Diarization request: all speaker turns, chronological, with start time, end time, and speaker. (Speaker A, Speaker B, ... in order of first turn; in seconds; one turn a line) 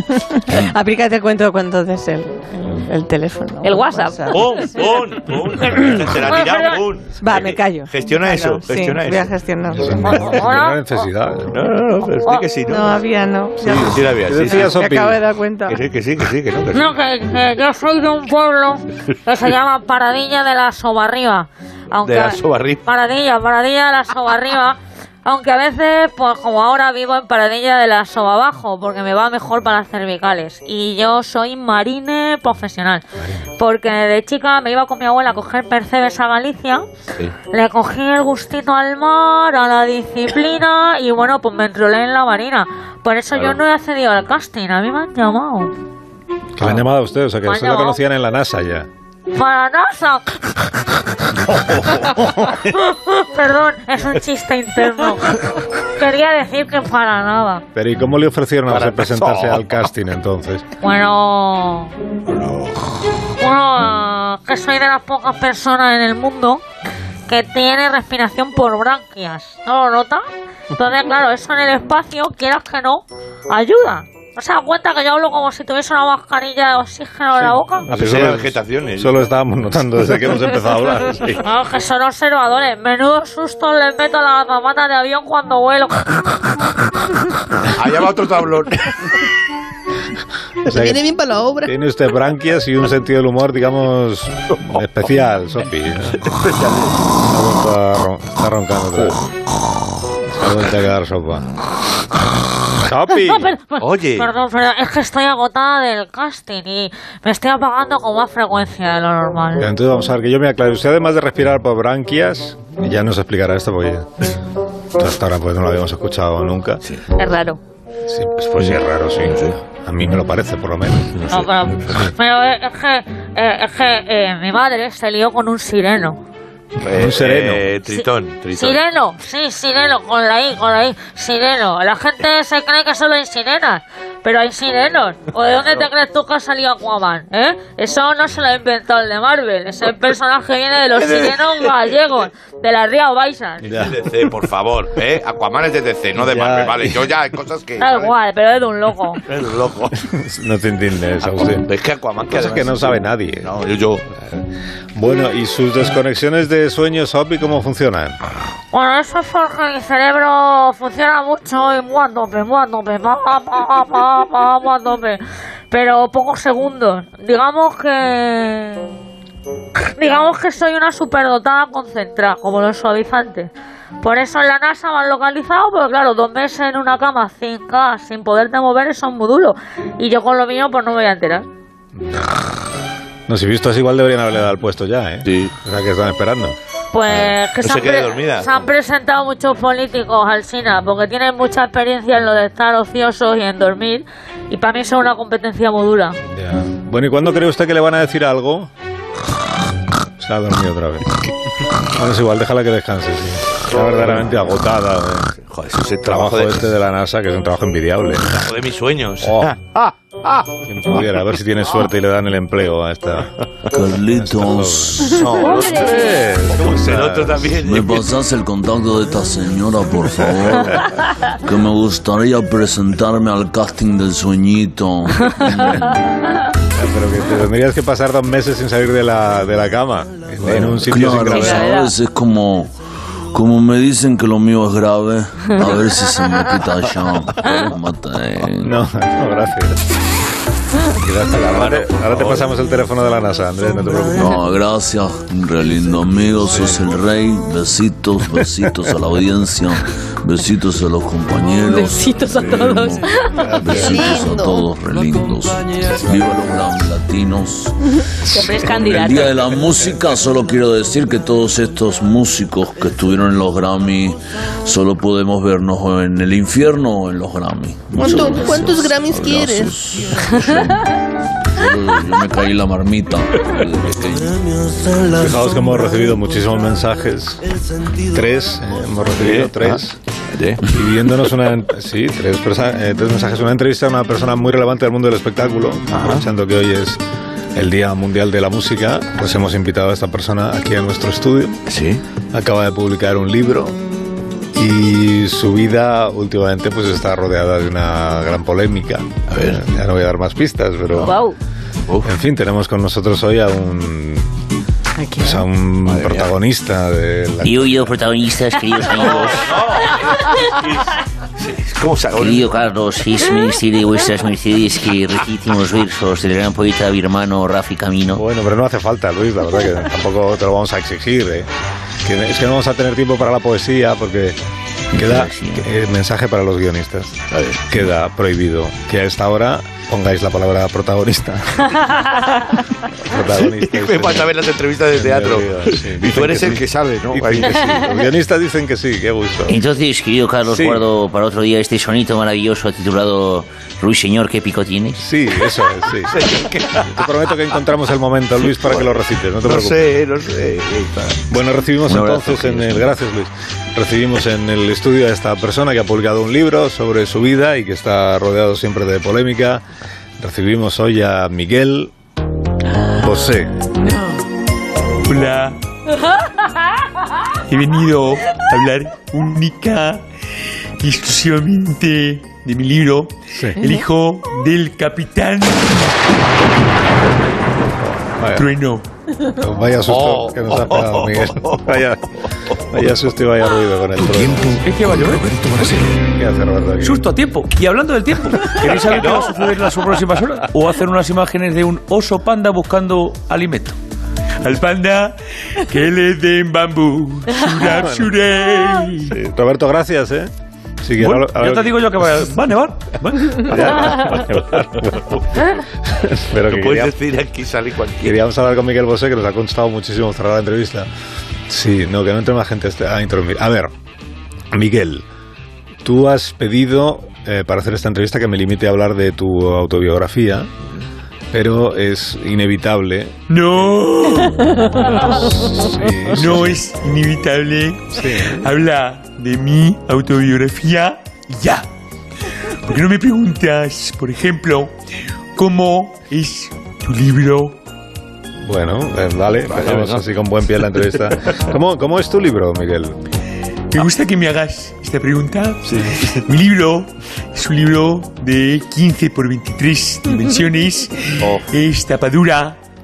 Speaker A: 0.1-5.0
Speaker B: 3.6-4.4
Speaker C: 4.3-9.3
Speaker A: 7.2-10.3
Speaker D: 9.7-11.6
Speaker E: 10.0-11.0
Speaker C: 11.5-13.0
Speaker A: 12.7-15.8
Speaker C: 13.6-14.8
Speaker D: 14.2-15.2
Speaker C: 15.7-16.9
Speaker E: 16.7-33.0
Speaker C: 22.0-22.8
Speaker E: 33.6-36.8
Speaker E: 37.5-45.7
Speaker D: 46.5-48.9
Speaker E: 47.5-48.0
Speaker E: 49.3-50.3
Speaker C: 51.5-52.5
Speaker E: 52.5-57.6
Speaker D: 57.7-60.6
Speaker C: 58.7-59.8
Speaker E: 60.8-61.9
Speaker C: 62.2-62.9
Speaker E: 63.4-66.6
Speaker E: 67.3-77.9
Speaker D: 77.4-81.4
Speaker C: 77.8-79.2
Speaker E: 81.4-86.2
Speaker C: 87.7-89.2
Speaker D: 90.6-91.0
Speaker F: 90.7-91.7
Speaker D: 91.6-96.3
Speaker C: 96.1-97.1
Speaker D: 97.2-99.2
Speaker D: 100.3-101.5
Speaker D: 102.8-103.5
Speaker E: 103.1-109.7
Speaker C: 103.8-104.3
Speaker D: 109.6-114.3
Speaker D: 115.0-116.8
Speaker B: 117.2-117.6
Speaker D: 118.0-121.2
Speaker C: 118.5-119.5
Speaker C: 121.1-122.1
Speaker E: 121.3-126.2
Speaker C: 126.8-128.8
Speaker D: 126.8-127.7
Speaker E: 127.9-143.7
Speaker C: 135.5-135.8
Speaker C: 143.6-148.1
Speaker D: 143.7-144.0
Speaker D: 146.2-147.1
Speaker E: 147.8-149.2
Speaker C: 149.2-150.0
Speaker D: 150.0-151.7
Speaker C: 151.4-154.1
Speaker D: 152.3-153.5
Speaker D: 154.9-158.2
Speaker E: 158.7-168.9
Speaker E: 169.9-173.5
Speaker E: 174.0-181.4
Speaker D: 181.9-182.5
Speaker D: 183.3-186.6
Speaker C: 185.2-185.5
Speaker E: 186.9-196.2
Speaker C: 187.6-188.5
Speaker D: 196.2-198.7
Speaker D: 200.2-201.2
Speaker D: 201.8-205.3
Speaker C: 203.8-204.3
Speaker C: 205.4-206.7
Speaker D: 206.0-208.5
Speaker C: 208.3-210.6
Speaker D: 209.2-209.5
Speaker D: 210.6-213.3
Speaker G: 213.7-215.1
Speaker D: 214.1-217.6
Speaker C: 215.0-218.1
Speaker G: 217.6-225.9
Speaker D: 226.7-231.8
Speaker G: 230.4-232.7
Speaker B: 231.4-231.9
Speaker G: 233.3-238.7
Speaker D: 238.6-239.8
Speaker D: 241.0-244.4
Speaker C: 241.3-242.5
Speaker G: 244.1-257.8
Speaker B: 251.7-254.1
Speaker D: 253.3-254.0
Speaker F: 253.8-254.4
Speaker G: 258.3-270.9
Speaker B: 258.3-259.6
Speaker F: 267.9-269.7
Speaker G: 271.5-274.5
Speaker D: 275.1-277.4
Speaker D: 278.1-280.0
Speaker C: 279.2-279.8
Speaker C: 280.3-280.6
Speaker D: 280.6-287.0
Speaker C: 285.9-286.2
Speaker D: 287.5-291.6
Speaker C: 291.7-292.0
Speaker D: 292.3-293.8
Speaker D: 294.5-301.2
Speaker C: 299.3-299.6
Speaker B: 301.0-301.3
Speaker D: 302.0-304.3
Speaker A: 305.0-305.5
Speaker D: 305.2-307.9
Speaker C: 305.9-306.3
Speaker H: 307.4-309.5
Speaker C: 308.9-312.5
Speaker H: 312.2-318.2
Speaker D: 318.1-321.5
Speaker D: 322.0-324.4
Speaker D: 324.9-331.9
Speaker H: 324.9-325.7
Speaker C: 327.3-327.6
Speaker D: 333.0-334.4
Speaker C: 333.2-337.8
Speaker D: 334.9-339.6
Speaker H: 339.5-345.0
Speaker D: 340.4-340.9
Speaker D: 345.0-346.3
Speaker C: 346.1-347.1
Speaker D: 346.8-349.9
Speaker C: 348.6-351.2
Speaker D: 351.3-359.6
Speaker H: 352.1-352.5
Speaker D: 360.2-361.9
Speaker D: 362.9-363.5
Speaker A: 363.9-364.1
Speaker I: 365.1-365.6
Speaker I: 367.5-370.0
Speaker I: 370.8-375.9
Speaker D: 373.3-373.6
Speaker D: 377.8-378.5
Speaker I: 378.3-378.8
Speaker D: 379.4-384.6
Speaker C: 379.9-381.8
Speaker I: 384.5-385.7
Speaker D: 385.9-387.1
Speaker I: 386.8-393.7
Speaker C: 388.7-389.6
Speaker I: 394.4-395.2
Speaker I: 395.7-399.1
Speaker D: 397.7-398.1
Speaker D: 399.0-400.3
Speaker D: 400.8-402.3
Speaker I: 401.0-403.1
Speaker D: 403.3-405.2
Speaker D: 405.8-406.9
Speaker C: 406.4-408.2
Speaker D: 408.0-410.9
Speaker D: 411.5-413.7
Speaker D: 414.5-415.0
Speaker D: 415.8-420.5
Speaker D: 421.3-423.2
Speaker I: 423.3-424.9
Speaker D: 424.8-426.6
Speaker I: 426.1-431.7
Speaker D: 427.9-428.5
Speaker I: 432.6-434.7
Speaker I: 435.4-437.6
Speaker D: 438.4-443.0
Speaker C: 439.5-440.0
Speaker I: 443.7-452.6
Speaker C: 445.6-446.2
Speaker C: 451.2-451.5